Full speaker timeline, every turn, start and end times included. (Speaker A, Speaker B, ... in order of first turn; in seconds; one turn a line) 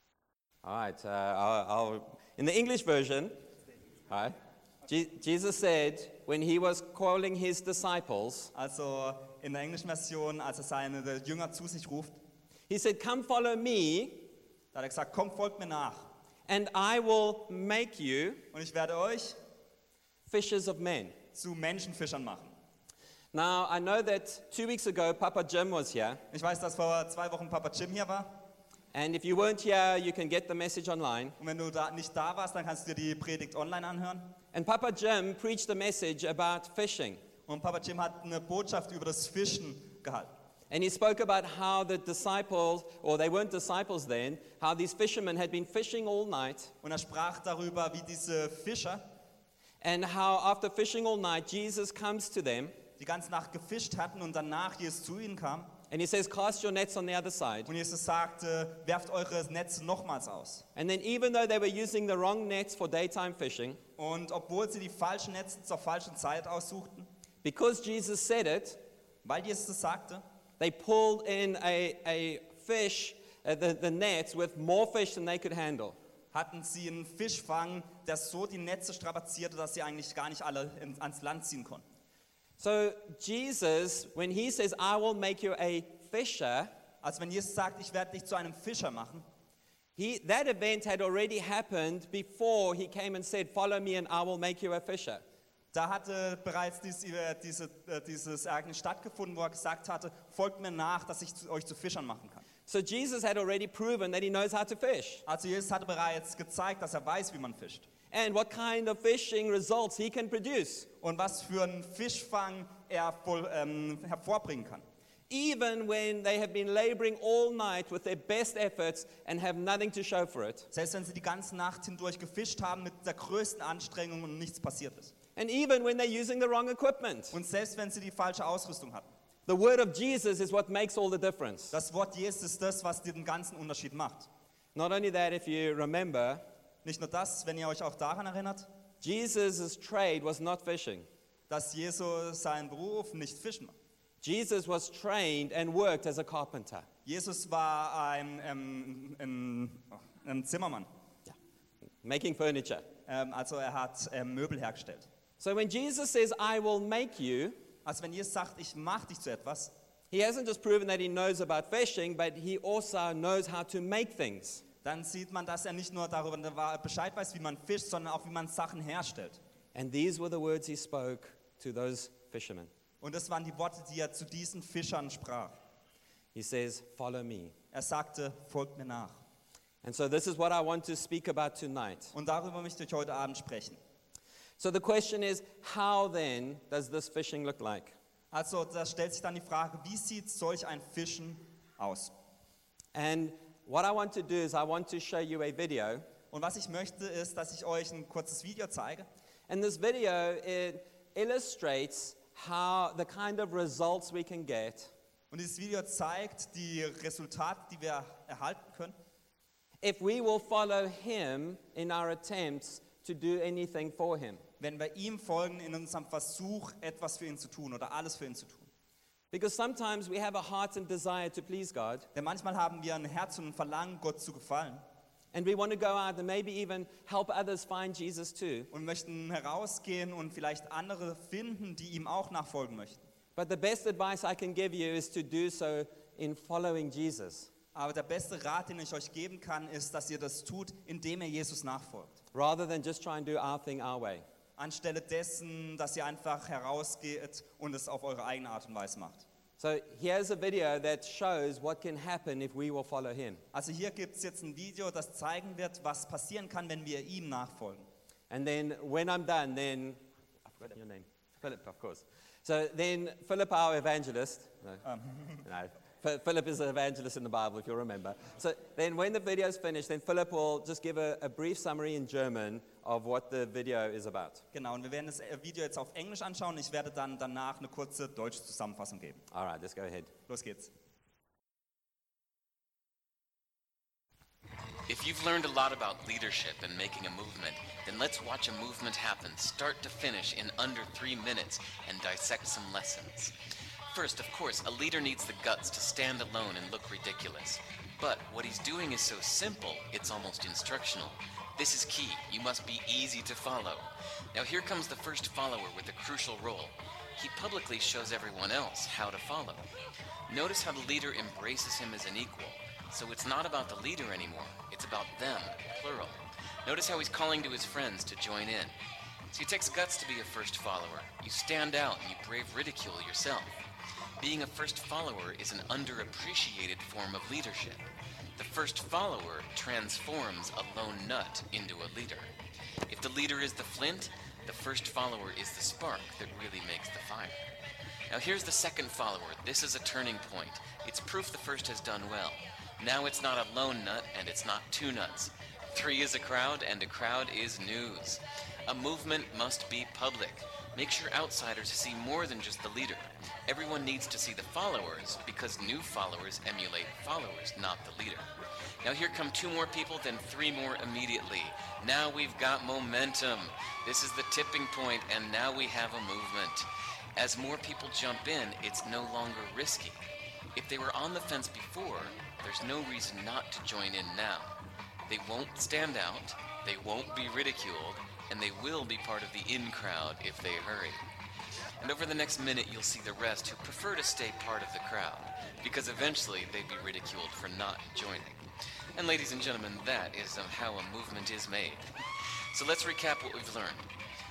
Speaker A: 0.6-3.3
Speaker A: 4.1-4.3
Speaker A: 4.8-8.5
Speaker B: 8.5-12.2
Speaker A: 12.7-14.3
Speaker B: 14.7-16.1
Speaker A: 16.5-18.4
Speaker B: 18.5-19.4
Speaker A: 20.3-21.1
Speaker B: 21.3-22.5
Speaker A: 23.3-26.2
Speaker B: 26.3-28.4
Speaker A: 28.9-31.4
Speaker B: 31.4-34.3
Speaker A: 34.5-37.2
Speaker B: 37.5-40.3
Speaker A: 40.7-46.7
Speaker B: 46.8-49.1
Speaker A: 49.8-52.7
Speaker B: 53.0-55.7
Speaker A: 55.9-57.7
Speaker B: 57.6-60.6
Speaker A: 60.7-63.8
Speaker B: 64.0-67.1
Speaker A: 67.4-68.8
Speaker B: 69.2-70.2
Speaker A: 70.6-76.0
Speaker B: 76.3-81.8
Speaker A: 82.6-86.7
Speaker B: 87.0-89.2
Speaker A: 90.0-95.2
Speaker B: 95.7-102.5
Speaker A: 102.7-105.2
Speaker B: 105.2-107.9
Speaker A: 108.1-110.9
Speaker B: 111.0-114.8
Speaker A: 115.3-120.7
Speaker B: 120.7-125.1
Speaker A: 125.3-127.3
Speaker B: 127.3-129.1
Speaker A: 129.5-131.7
Speaker B: 131.7-134.3
Speaker A: 134.7-136.4
Speaker B: 136.8-138.7
Speaker A: 139.0-141.1
Speaker B: 141.5-143.7
Speaker A: 144.2-146.9
Speaker B: 147.1-150.9
Speaker A: 152.0-152.9
Speaker B: 153.1-155.1
Speaker A: 155.4-157.6
Speaker B: 157.8-159.7
Speaker A: 160.1-164.6
Speaker B: 164.8-169.4
Speaker A: 169.7-172.7
Speaker B: 173.0-175.6
Speaker A: 176.3-177.5
Speaker B: 177.7-179.2
Speaker A: 179.8-182.1
Speaker B: 182.1-183.8
Speaker A: 184.6-187.9
Speaker B: 188.3-192.1
Speaker A: 192.9-196.1
Speaker B: 196.3-199.1
Speaker A: 199.5-204.9
Speaker B: 205.3-208.9
Speaker A: 209.8-214.4
Speaker B: 214.6-218.7
Speaker A: 219.3-222.1
Speaker B: 222.1-224.8
Speaker A: 225.3-228.7
Speaker B: 228.7-233.0
Speaker A: 233.3-237.5
Speaker B: 237.7-242.2
Speaker A: 242.3-244.2
Speaker B: 244.6-249.2
Speaker A: 249.6-253.4
Speaker B: 253.5-257.9
Speaker A: 258.3-264.8
Speaker B: 264.8-265.4
Speaker A: 265.4-274.4
Speaker B: 274.5-279.2
Speaker A: 279.3-280.1
Speaker B: 280.3-280.7
Speaker C: 284.9-293.3
Speaker C: 293.9-309.7
Speaker C: 310.3-318.7
Speaker C: 319.3-323.7
Speaker C: 324.2-332.3
Speaker C: 332.9-337.5
Speaker C: 338.1-358.3
Speaker C: 358.8-374.5
Speaker C: 375.1-381.1
Speaker C: 381.8-391.9
Speaker C: 392.5-393.9